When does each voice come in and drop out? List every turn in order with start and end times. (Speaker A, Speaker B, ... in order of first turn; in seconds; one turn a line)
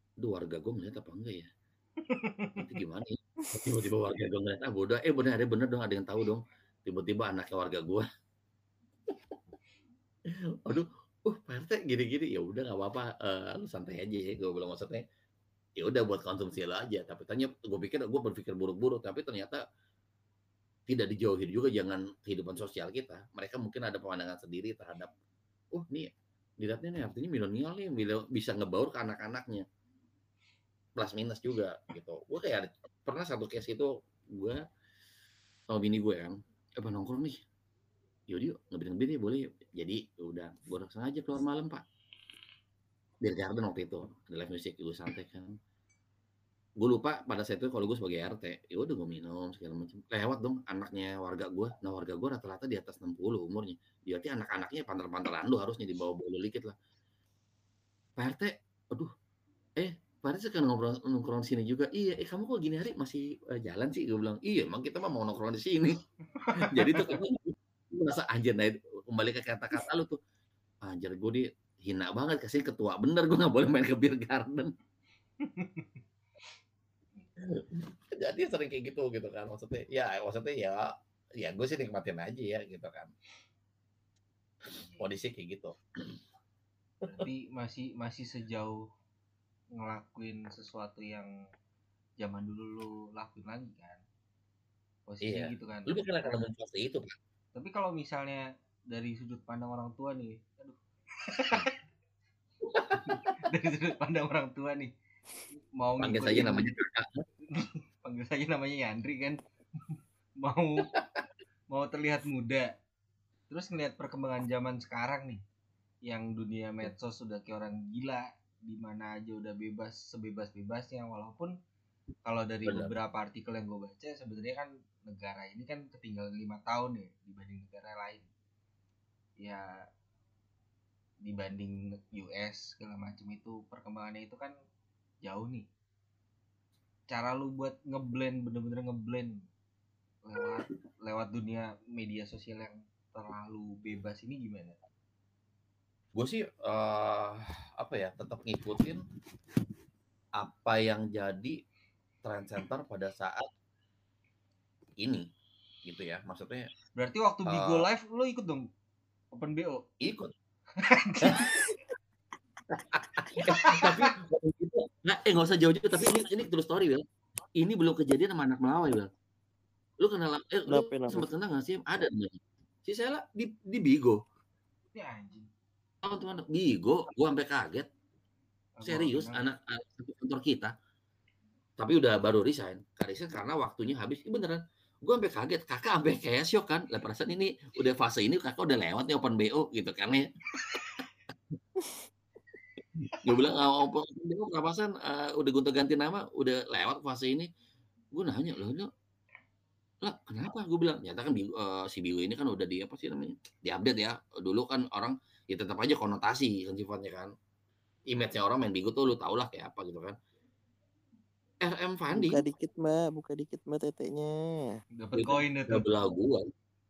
Speaker A: 0.2-1.5
Speaker B: 2.1-2.6
Speaker A: 2.6-8.1
Speaker A: 10.6-15.0
Speaker A: 15.8-19.6
Speaker A: 20.9-25.1
Speaker A: 25.7-29.6
Speaker A: 31.0-34.6
Speaker A: 35.7-37.4
Speaker A: 38.3-41.8
Speaker A: 43.2-45.5
Speaker A: 46.8-56.8
Speaker A: 58.2-59.1
Speaker A: 59.8-66.0
Speaker B: 66.4-67.2
Speaker A: 66.6-70.2
Speaker A: 70.8-74.7
Speaker B: 75.4-76.0
Speaker A: 77.4-80.8
Speaker A: 81.4-83.1
Speaker B: 84.7-85.1
Speaker A: 85.0-86.2
Speaker B: 87.0-88.8
Speaker B: 89.8-91.3
Speaker B: 92.2-94.0
Speaker B: 95.1-96.4
Speaker A: 95.2-97.1
Speaker B: 97.5-101.7
Speaker A: 102.7-103.1
Speaker B: 102.9-104.9
Speaker B: 105.8-106.7
Speaker A: 106.0-107.2
Speaker B: 107.5-109.4
Speaker B: 109.9-110.9
Speaker B: 111.7-112.7
Speaker B: 113.5-115.4
Speaker B: 116.1-121.5
Speaker B: 122.2-128.3
Speaker A: 122.7-122.9
Speaker B: 131.2-134.6
Speaker B: 135.2-135.7
Speaker B: 137.1-139.5
Speaker B: 140.2-144.8
Speaker A: 146.2-149.0
Speaker A: 150.4-151.6
Speaker A: 152.2-153.5
Speaker A: 155.0-155.2
Speaker A: 155.8-156.7
Speaker B: 157.0-158.7
Speaker A: 157.5-157.9
Speaker B: 159.3-159.8
Speaker A: 160.0-160.3
Speaker B: 160.8-161.5
Speaker A: 161.3-161.6
Speaker A: 162.7-167.0
Speaker B: 163.4-164.1
Speaker A: 167.6-169.1
Speaker A: 170.0-174.2
Speaker C: 170.7-171.3
Speaker B: 174.9-175.5
Speaker A: 176.0-177.9
Speaker B: 178.8-179.4
Speaker A: 178.8-180.7
Speaker A: 181.8-190.3
Speaker A: 193.0-197.5
Speaker A: 198.1-198.9
Speaker A: 200.0-207.3
Speaker A: 208.1-210.2
Speaker A: 211.6-212.4
Speaker C: 212.1-214.3
Speaker B: 215.0-215.9
Speaker A: 215.2-216.5